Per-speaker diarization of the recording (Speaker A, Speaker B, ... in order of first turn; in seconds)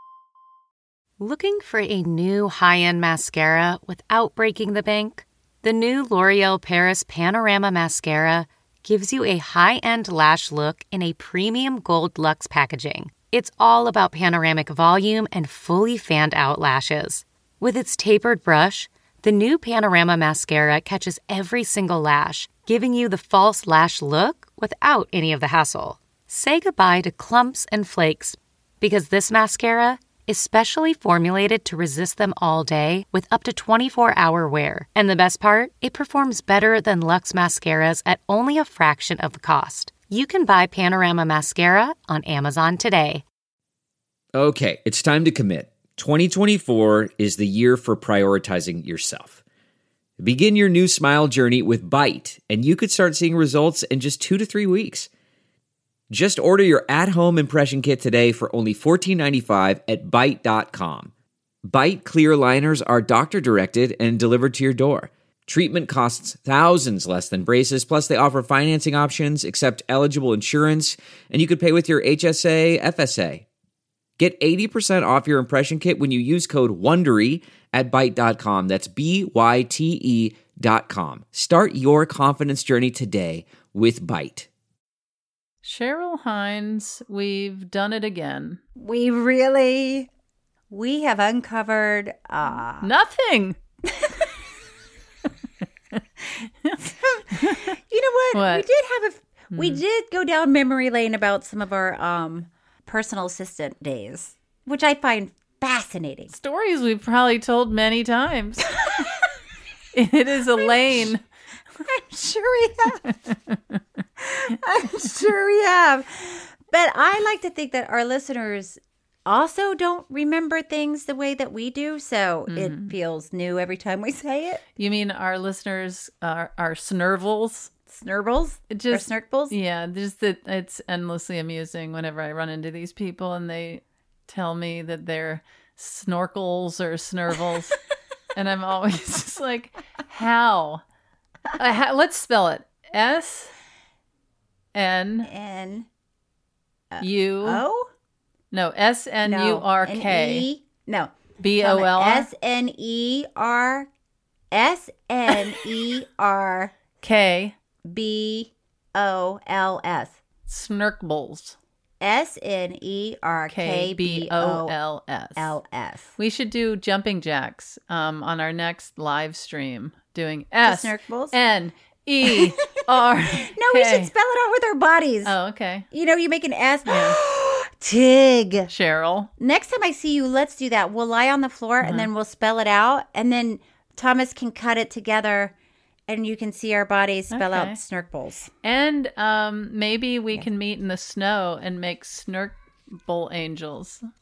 Speaker A: 1.2-43.2
Speaker B: 44.3-49.4, 50.2-55.1, 56.1-61.1, 61.6-73.4, 74.2-84.5
Speaker C: 85.6-88.6, 92.8-93.6, 97.3-97.7, 98.3-98.7, 99.5-99.8, 106.3-109.1, 109.9-111.2, 113.0-113.8, 122.5-122.9, 124.8-127.7, 128.7-137.8, 138.3-140.8, 141.5-143.5, 144.7-145.3, 147.0-147.6, 148.5-150.5, 151.4-152.3, 157.0-157.5, 160.5-161.6, 163.5-165.5, 166.2-174.1, 175.2-175.9, 176.9-177.2, 178.7-179.3, 181.8-182.1, 187.3-187.8, 188.6-194.0
Speaker D: 88.8-90.1, 90.7-92.9, 96.8-106.3, 110.5-110.8, 111.8-113.1, 114.2-124.6, 127.9-129.6, 145.2-145.9, 146.9-147.9, 149.2-153.9, 154.5-156.7, 157.8-160.2, 162.0-164.8, 165.3-166.2, 170.6-171.3, 172.2-172.5, 173.3-175.3, 175.9-178.7, 179.4-185.5, 186.1-188.5